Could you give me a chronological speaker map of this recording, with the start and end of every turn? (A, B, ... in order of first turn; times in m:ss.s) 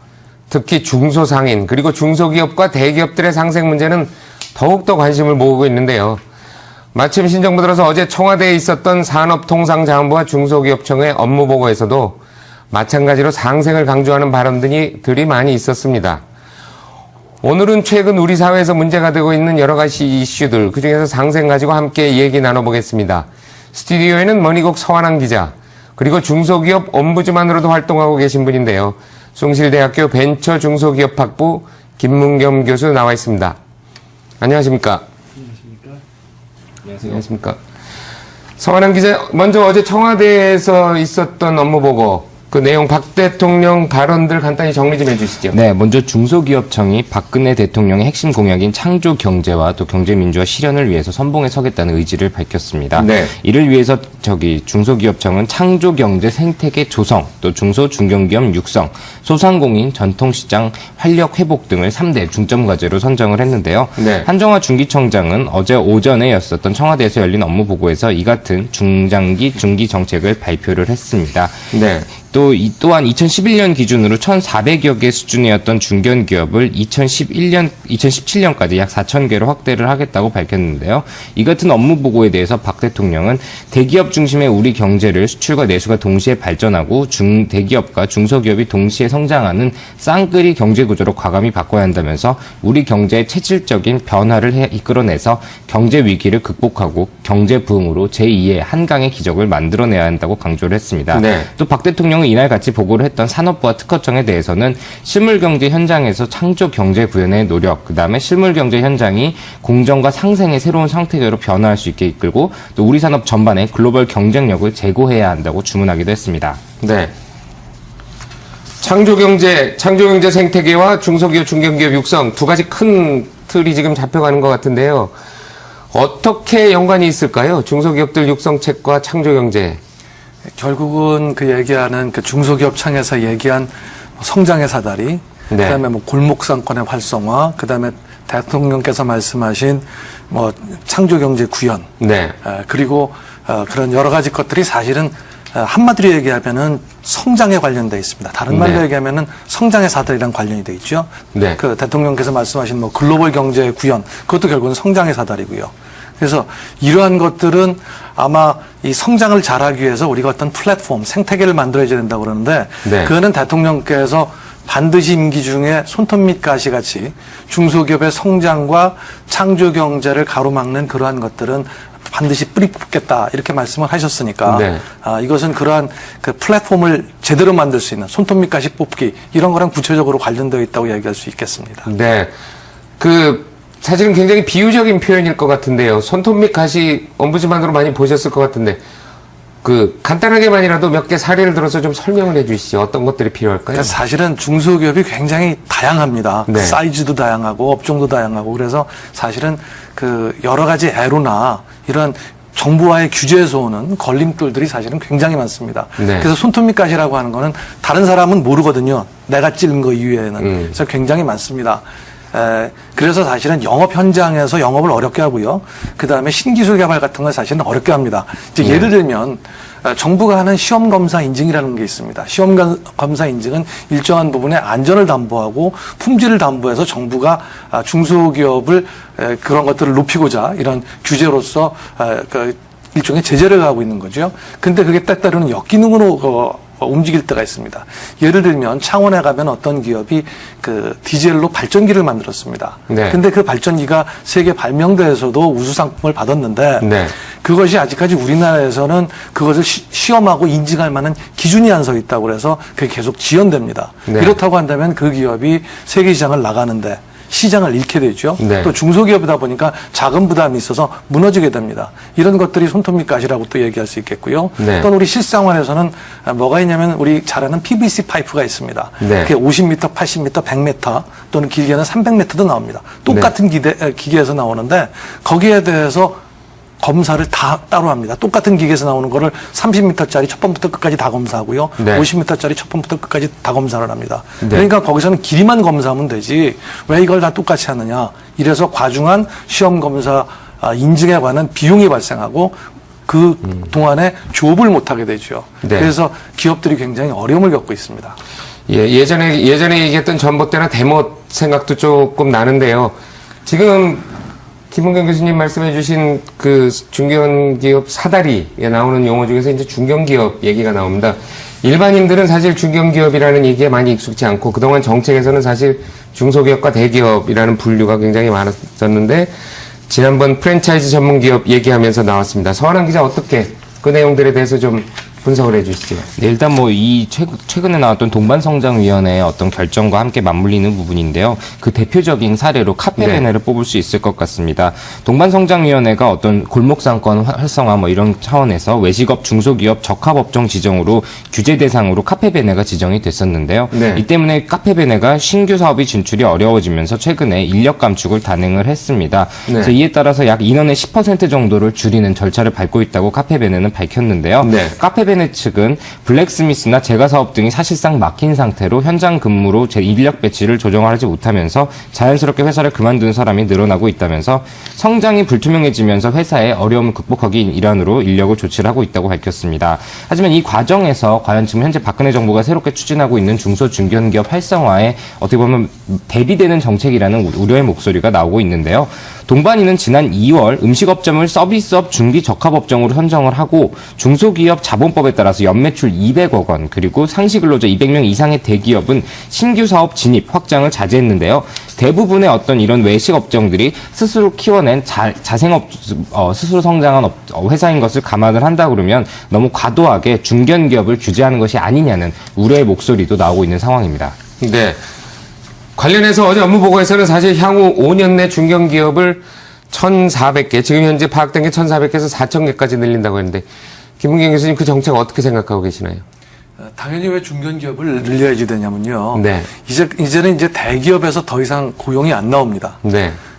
0:00.5-0:06.2 A
0:06.9-0:12.2 A
0:12.7-0:16.2 A
0:17.4-0:33.6 A
0:34.4-0:35.0 A
0:37.0-0:37.6 A
0:38.6-0:45.6 A
0:45.5-1:11.5 B
0:52.9-0:53.3 A
1:04.0-1:04.3 A
1:11.7-1:12.1 A
1:12.1-1:56.6 B
1:41.1-1:41.5 A
1:56.8-1:57.1 A
1:58.8-2:05.1 A
2:05.9-2:09.8 A
2:10.6-2:21.9 C
2:15.5-2:15.8 A
2:22.0-2:22.3 A
2:22.4-3:01.9 C
2:28.5-2:28.8 A
2:31.3-2:31.6 A
2:42.8-2:43.1 A
2:54.4-2:54.8 A
3:01.8-3:02.3 A
3:03.0-3:08.8 A
3:09.6-3:13.9 A
3:13.7-4:06.9 C
3:16.5-3:16.8 A
3:26.0-3:26.3 A
3:38.6-3:38.9 A
4:02.9-4:03.2 A
4:06.8-4:07.1 A
4:07.4-4:36.2 C
4:14.1-4:14.4 A
4:18.4-4:18.7 A
4:24.6-4:24.9 A
4:29.0-4:29.3 A
4:36.8-4:58.2 C
4:41.8-4:42.1 A
4:44.4-4:44.7 A
4:55.6-4:55.9 A
4:58.7-5:04.0 A
5:04.7-5:19.3 A
5:19.9-5:26.1 A
5:26.2-6:44.2 B
5:33.0-5:33.3 A
5:43.7-5:44.0 A
5:49.5-5:49.7 A
5:54.4-5:54.7 A
6:44.4-6:44.8 A
6:45.8-6:53.4 A
6:54.0-6:56.0 A
6:56.6-7:02.8 C
6:59.1-6:59.5 A
7:02.8-7:03.2 A